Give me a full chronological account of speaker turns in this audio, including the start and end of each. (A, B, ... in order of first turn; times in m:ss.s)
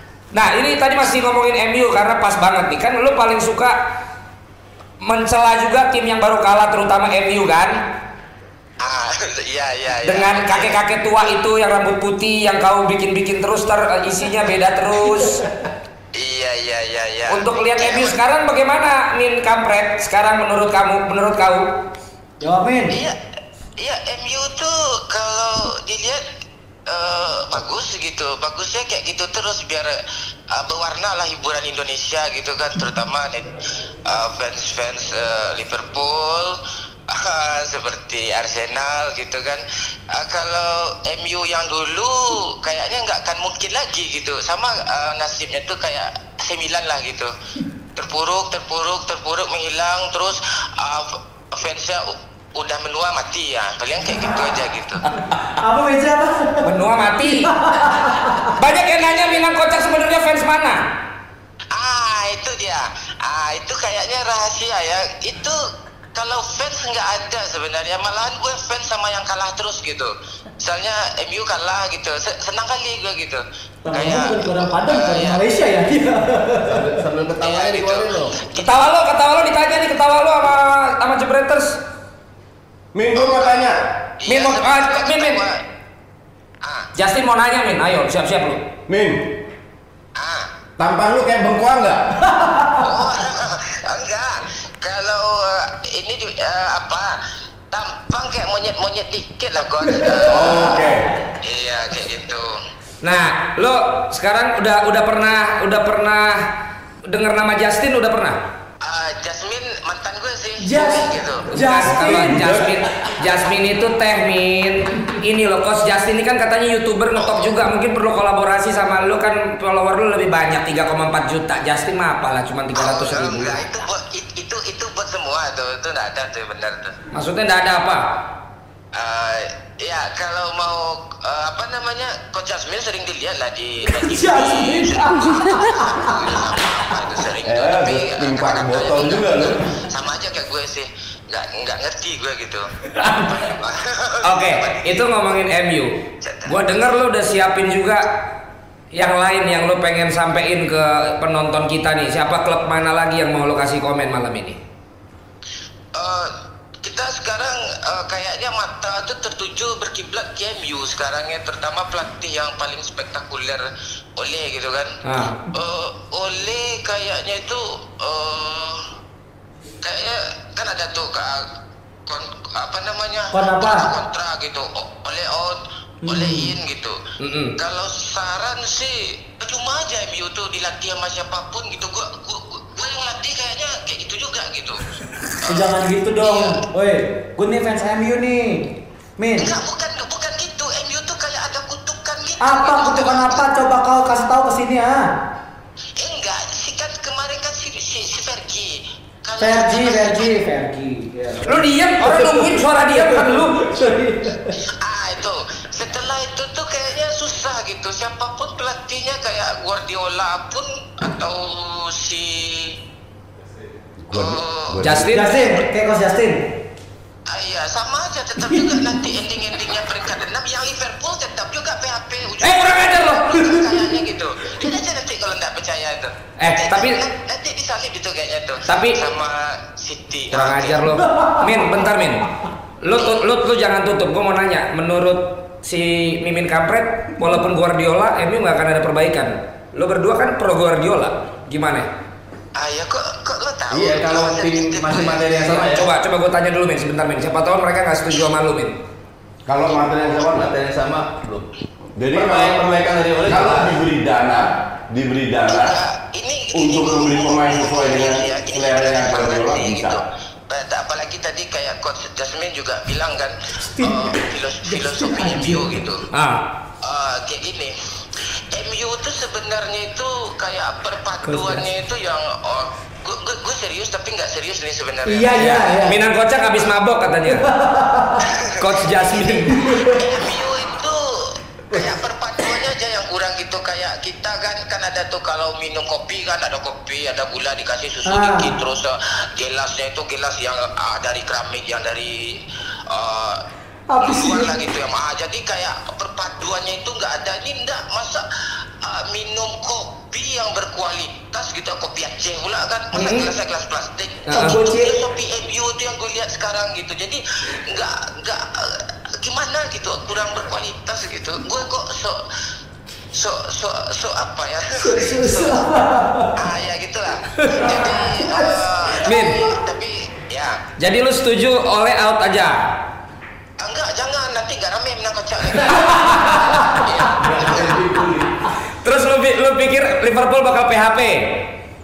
0:00.3-0:03.8 A
0:05.0-0:07.9 A
0:08.8-0:10.8 B
0:10.0-0:15.4 A
0:16.1-0:18.2 B
0:17.3-0:21.7 A
0:22.4-0:23.0 C
0:22.9-0:23.2 B
0:23.8-0:26.2 B
0:26.9-0:30.0 B
0:30.5-0:47.3 B
0:47.9-0:55.0 B
0:55.3-0:58.5 C
0:56.6-0:57.5 A
0:58.4-1:00.8 A
1:01.7-1:05.6 B
1:06.1-1:15.5 B
1:13.8-1:16.9 C
1:16.6-1:18.4 D
1:17.4-1:18.9 B
1:18.6-1:21.8 A
1:22.9-1:23.9 E
1:23.2-1:25.6 B
1:24.3-1:25.4 A
1:26.6-1:26.9 B
1:27.0-1:28.6 A
1:28.9-1:29.5 E
1:30.2-1:30.5 B
1:30.8-1:32.4 E
1:32.4-1:32.8 C
1:32.8-1:37.2 B
1:37.7-1:40.7 B
1:40.2-1:41.1 E
1:40.4-1:40.9 C
1:41.4-1:42.5 B
1:43.0-1:46.5 A
1:47.1-1:48.4 A
1:48.8-1:51.6 B
1:50.6-1:52.6 C
1:51.5-2:03.6 A
1:52.1-1:52.8 E
1:57.2-1:57.5 B
2:02.7-2:07.0 B
2:07.1-2:08.2 A
2:08.9-2:25.0 B
2:13.9-2:16.3 C
2:17.4-2:19.7 E
2:24.2-2:28.1 A
2:26.2-2:26.7 B
2:28.9-2:34.6 A
2:35.9-2:48.9 B
2:45.0-2:45.4 A
2:49.8-2:51.6 B
2:52.1-2:57.0 B
2:53.3-2:53.9 C
2:56.0-2:56.5 C
2:57.2-2:57.5 A
2:57.5-3:04.8 B
3:05.4-3:06.6 B
3:05.5-3:09.5 C
3:09.4-3:13.6 B
3:12.4-3:15.1 C
3:16.0-3:20.5 B
3:19.4-3:24.6 C
3:21.4-3:23.7 A
3:24.6-3:32.8 B
3:34.1-3:35.1 E
3:34.1-3:34.8 B
3:34.8-3:35.5 A
3:35.0-3:36.5 C
3:37.3-3:50.9 B
3:38.5-3:38.8 C
3:42.4-3:43.7 A
3:46.4-3:47.0 A
3:48.7-3:49.1 A
3:50.3-3:52.3 A
3:51.1-3:51.4 C
3:52.8-4:01.9 A
3:53.0-3:53.2 B
4:02.6-4:05.6 B
4:03.7-4:05.9 D
4:05.5-4:08.8 A
4:09.5-4:10.6 E
4:10.3-4:11.5 D
4:12.0-4:15.8 E
4:12.1-4:13.8 D
4:15.5-4:26.1 B
4:16.5-4:20.0 E
4:23.6-4:25.8 C
4:26.1-4:26.4 A
4:26.8-4:35.7 B
4:35.0-4:36.0 C
4:35.3-4:37.5 A
4:37.3-4:38.3 C
4:38.2-4:39.3 B
4:38.6-4:39.9 A
4:39.5-4:40.0 C
4:39.9-4:53.5 B
4:48.0-4:48.6 C
4:53.9-4:54.7 C
4:54.0-5:12.2 B
5:02.9-5:03.3 A
5:04.3-5:04.8 A
5:04.3-5:04.9 C
5:13.1-5:15.7 B
5:14.9-5:16.3 C
5:16.3-5:20.6 B
5:17.4-5:18.5 C
5:19.0-5:19.4 A
5:20.8-5:22.6 A
5:23.6-5:28.0 B
5:25.8-5:26.3 A
5:28.8-5:31.4 A